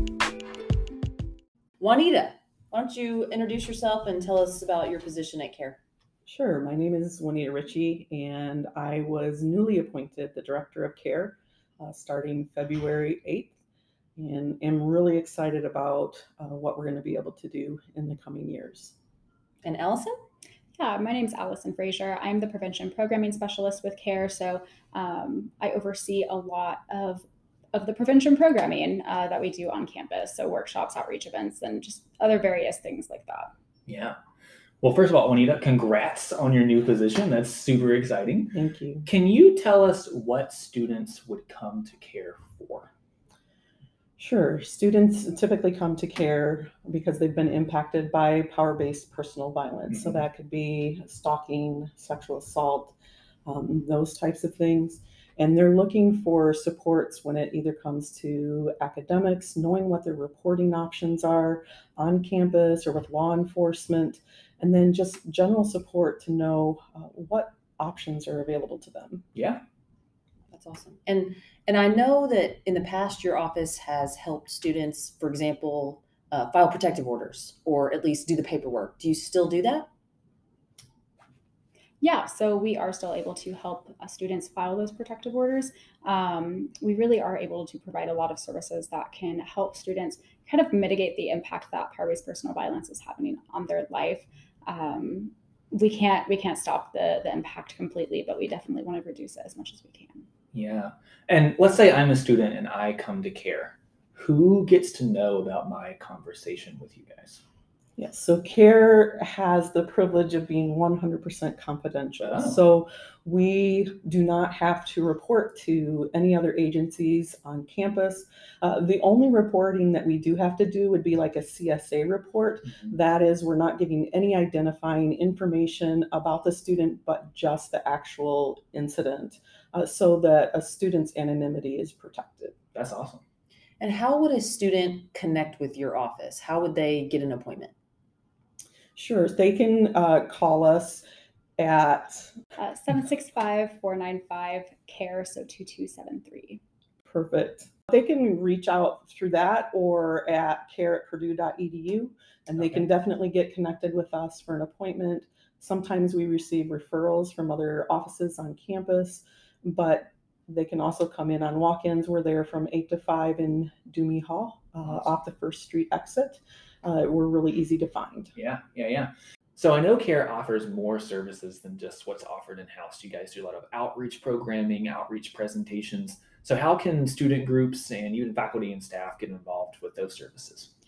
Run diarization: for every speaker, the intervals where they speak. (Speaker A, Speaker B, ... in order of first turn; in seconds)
Speaker A: 1.8-5.8, 19.6-20.2, 70.5-79.9, 133.8-137.7
Speaker B: 6.2-13.6, 14.2-18.9, 38.5-39.1, 44.2-69.2, 108.0-132.6, 138.9-141.0, 141.6-142.3, 147.0-168.3
Speaker C: 20.8-33.5, 82.0-100.2, 142.6-146.6
Speaker D: 33.9-34.1, 34.8-42.9, 69.3-69.6, 100.5-107.4, 112.2-112.6, 132.7-133.2, 168.3-180.7